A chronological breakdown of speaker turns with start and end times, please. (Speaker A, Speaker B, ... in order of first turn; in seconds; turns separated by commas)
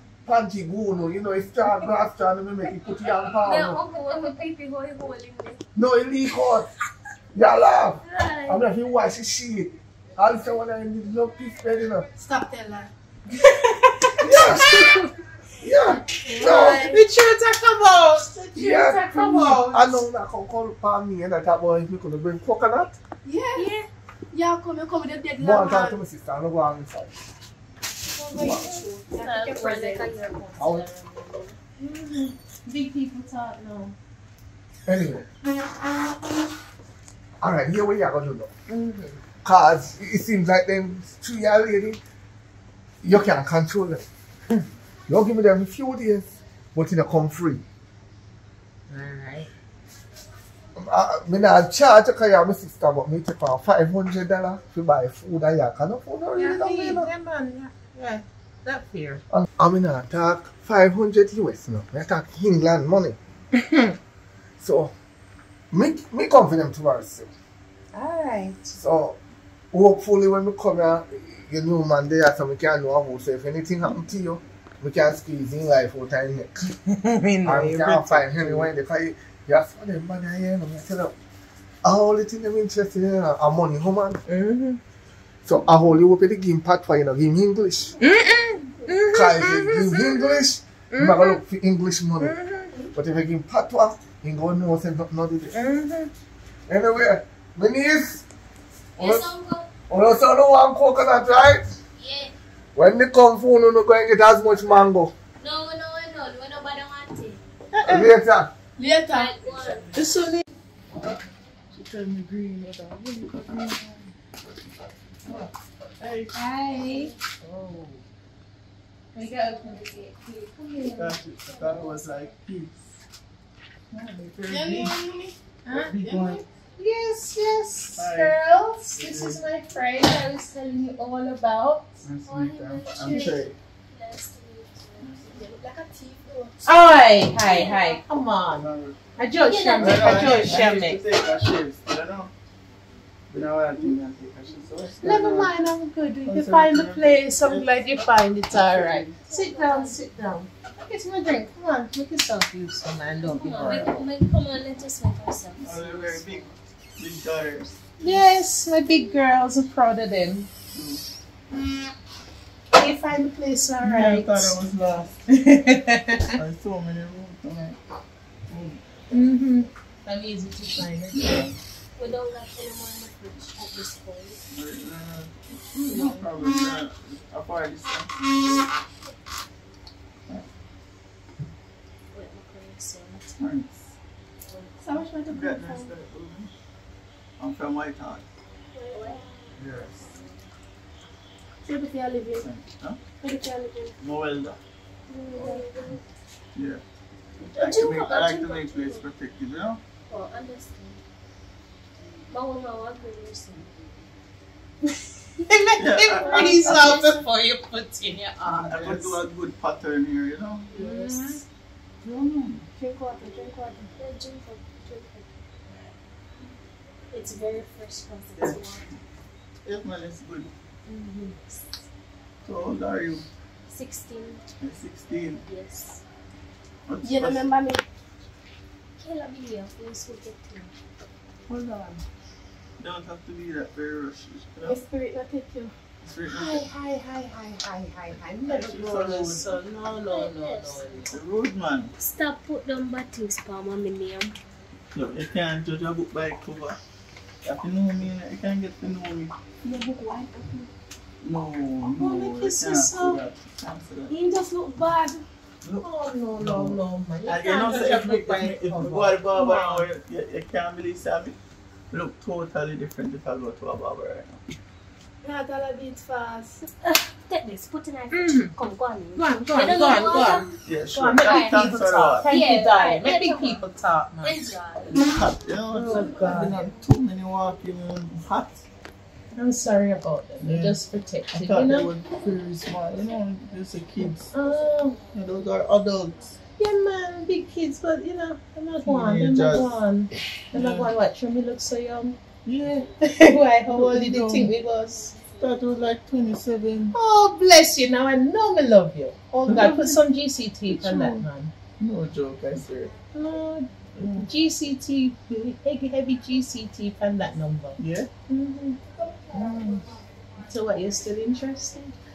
Speaker A: 0.2-3.8, Speaker B: 3.4-5.6, Speaker C: 4.1-4.4, Speaker A: 5.8-6.7, Speaker A: 7.3-12.1, Speaker B: 8.1-8.6, Speaker D: 12.2-12.9, Speaker C: 13.4-15.1, Speaker A: 14.2-14.9, Speaker A: 15.6-16.9, Speaker D: 16.3-17.0, Speaker C: 16.5-19.9, Speaker A: 18.6-22.9, Speaker D: 23.2-23.7, Speaker D: 24.3-26.0, Speaker A: 25.4-27.2, Speaker D: 28.2-30.1, Speaker A: 28.3-28.6, Speaker B: 29.1-31.6, Speaker A: 30.6-30.9, Speaker C: 31.8-34.0, Speaker A: 34.9-35.3, Speaker A: 37.4-38.5, Speaker C: 38.7-39.2, Speaker A: 39.4-42.0, Speaker A: 43.0-44.0, Speaker A: 45.1-47.6, Speaker C: 48.9-49.5, Speaker A: 50.8-57.1, Speaker C: 56.4-59.2, Speaker A: 59.3-63.2, Speaker C: 63.5-64.0, Speaker A: 64.6-64.9, Speaker A: 65.7-67.3, Speaker C: 67.9-68.8, Speaker A: 68.8-69.2, Speaker A: 69.7-76.6, Speaker C: 76.7-78.7, Speaker A: 77.4-81.2, Speaker A: 81.8-84.2, Speaker C: 84.3-84.8, Speaker A: 85.5-88.0, Speaker C: 88.0-91.4, Speaker A: 89.1-92.4, Speaker C: 92.2-92.7, Speaker A: 92.9-95.6, Speaker C: 95.5-96.1, Speaker A: 96.7-98.2, Speaker A: 99.0-99.3, Speaker B: 99.0-99.7, Speaker A: 99.9-101.7, Speaker B: 102.0-102.3, Speaker A: 102.8-105.1, Speaker B: 105.4-107.4, Speaker E: 107.7-108.1, Speaker A: 107.8-108.5, Speaker D: 108.8-109.8, Speaker B: 109.1-109.9, Speaker C: 109.9-110.4, Speaker E: 111.0-114.1, Speaker E: 115.3-116.4, Speaker C: 116.3-117.1, Speaker E: 117.4-118.0, Speaker C: 119.2-121.9, Speaker E: 120.8-122.9, Speaker E: 123.9-125.0, Speaker D: 124.5-125.3, Speaker C: 125.7-131.9, Speaker E: 125.7-126.4, Speaker E: 128.0-128.4, Speaker E: 128.9-129.4, Speaker E: 132.0-133.6, Speaker B: 132.3-135.3, Speaker E: 135.0-135.3, Speaker D: 135.3-136.8, Speaker C: 136.7-141.0, Speaker B: 137.5-138.0, Speaker E: 138.5-139.0, Speaker B: 139.5-140.6, Speaker E: 139.8-142.3, Speaker E: 143.3-145.5, Speaker C: 145.0-154.1, Speaker E: 146.3-149.2, Speaker B: 149.2-150.0, Speaker B: 153.3-156.4, Speaker E: 155.6-157.8, Speaker C: 158.0-160.5, Speaker E: 160.7-161.0, Speaker C: 162.7-164.5, Speaker E: 163.8-165.2, Speaker C: 165.3-166.4, Speaker E: 166.3-167.8, Speaker E: 168.5-168.8, Speaker C: 169.1-171.4, Speaker E: 171.1-171.5, Speaker B: 172.0-174.4, Speaker E: 174.5-178.2, Speaker C: 175.8-176.3, Speaker B: 182.1-183.4, Speaker E: 183.4-183.9, Speaker D: 184.8-185.9, Speaker E: 185.3-186.5, Speaker E: 187.4-188.3, Speaker D: 188.8-189.5, Speaker B: 188.9-189.2, Speaker E: 189.6-190.0, Speaker D: 191.6-192.5, Speaker E: 192.4-193.0, Speaker B: 193.2-193.9, Speaker E: 194.0-194.6, Speaker B: 195.2-196.0, Speaker D: 195.3-195.7, Speaker E: 196.6-196.8, Speaker E: 197.4-199.8, Speaker B: 197.6-199.0, Speaker B: 200.1-201.0, Speaker B: 202.3-203.7, Speaker C: 205.4-209.2, Speaker E: 205.8-207.2, Speaker B: 206.2-207.0, Speaker E: 208.4-210.8, Speaker B: 210.7-211.4, Speaker C: 210.7-211.4, Speaker E: 212.0-212.7, Speaker D: 213.5-213.9, Speaker B: 213.9-215.2, Speaker B: 217.1-218.9, Speaker E: 218.4-219.0, Speaker E: 219.6-220.5, Speaker B: 220.9-221.7, Speaker E: 222.4-223.3, Speaker B: 223.7-224.4, Speaker E: 224.6-225.4, Speaker B: 225.5-226.0, Speaker E: 226.9-227.4, Speaker D: 227.0-227.8, Speaker B: 229.0-230.7, Speaker E: 231.5-232.0, Speaker E: 232.8-234.8, Speaker D: 234.6-235.7, Speaker E: 236.0-236.7, Speaker C: 236.3-241.1, Speaker E: 238.5-239.5, Speaker B: 240.1-241.0, Speaker E: 241.1-241.9, Speaker B: 242.0-244.3, Speaker E: 244.9-246.8, Speaker E: 247.4-249.3, Speaker C: 249.7-250.3, Speaker E: 251.2-254.1, Speaker C: 251.9-253.2, Speaker D: 254.1-255.1, Speaker C: 255.8-259.8, Speaker E: 256.4-261.4, Speaker E: 261.9-264.4, Speaker D: 265.2-266.7, Speaker B: 266.9-270.6, Speaker C: 268.1-268.5, Speaker C: 269.2-274.5, Speaker E: 270.6-272.3, Speaker B: 271.2-273.6, Speaker B: 274.2-275.1, Speaker E: 274.9-278.6, Speaker C: 275.7-276.5, Speaker C: 279.4-281.9, Speaker E: 280.4-280.8, Speaker E: 281.3-284.3, Speaker C: 284.3-285.0, Speaker E: 285.1-286.4, Speaker C: 286.6-292.2, Speaker E: 288.8-289.8, Speaker E: 290.5-290.9, Speaker E: 292.5-292.9, Speaker C: 293.0-295.2, Speaker E: 293.7-294.5, Speaker E: 295.3-296.9, Speaker C: 296.9-301.5, Speaker E: 299.5-300.0, Speaker E: 300.7-301.3, Speaker E: 301.8-302.9, Speaker C: 303.1-308.8, Speaker E: 304.0-304.3, Speaker E: 307.8-308.1, Speaker C: 309.3-309.9, Speaker C: 310.4-312.0